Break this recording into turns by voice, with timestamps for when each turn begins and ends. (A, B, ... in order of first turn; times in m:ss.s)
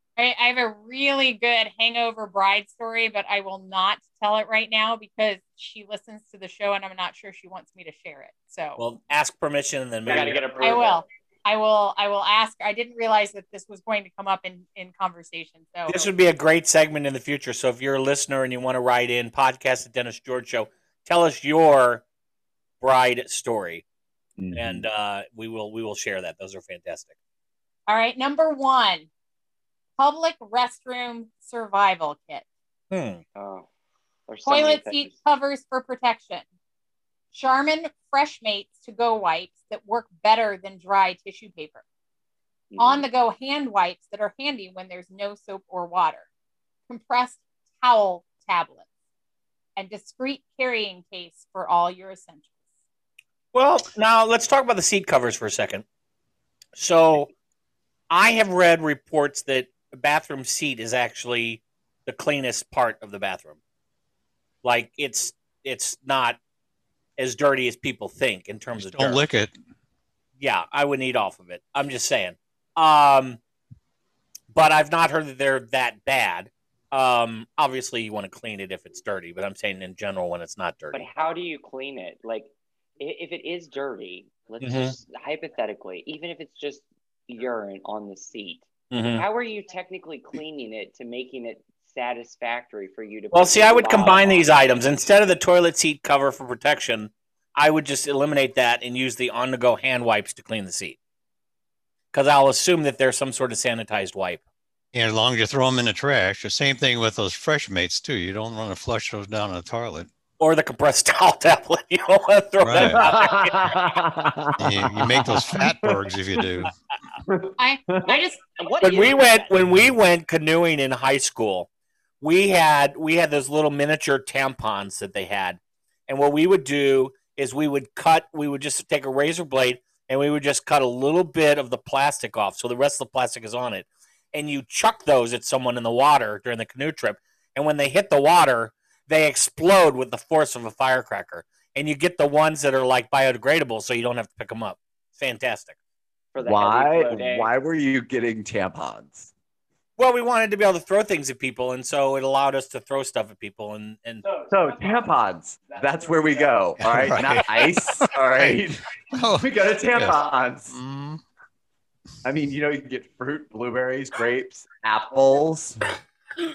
0:00.2-0:08.8 A
0:08.8-0:10.6 B
0:10.1-0:11.0 C
0:10.6-0:16.0 A
0:15.9-0:22.0 B
0:22.8-0:23.8 B
0:24.4-0:24.8 D
0:24.5-0:27.1 B
0:27.9-0:29.1 A
0:30.0-0:32.4 A
0:32.9-0:33.2 B
0:33.4-0:33.6 C
0:34.3-0:35.1 C
0:34.4-0:36.4 A
0:37.3-0:41.8 A
0:42.7-0:43.0 C
0:42.8-0:46.3 A
0:46.9-0:48.8 A
0:49.8-0:52.5 A
0:53.5-0:55.8 B
0:56.8-0:57.3 B
0:58.1-1:03.6 B
1:04.6-1:06.4 B
1:07.2-1:09.2 B
1:08.8-1:09.5 E
1:10.4-1:13.4 B
1:14.5-1:21.0 B
1:20.9-1:34.5 C
1:24.6-1:24.9 B
1:28.9-1:29.2 B
1:33.3-1:41.0 B
1:42.1-1:44.4 B
1:44.9-1:50.1 E
1:50.4-1:53.8 B
1:52.6-1:53.0 E
1:52.8-1:56.1 D
1:54.6-1:56.7 E
1:57.3-1:58.1 D
1:57.6-1:58.4 A
1:58.1-1:59.5 C
1:58.8-2:01.7 B
2:02.2-2:25.8 B
2:26.3-2:27.5 C
2:26.4-2:29.3 D
2:30.0-2:34.2 B
2:34.5-2:38.8 D
2:36.8-2:38.6 E
2:39.1-2:40.2 E
2:39.4-2:40.8 D
2:40.7-2:41.2 E
2:42.2-2:45.8 D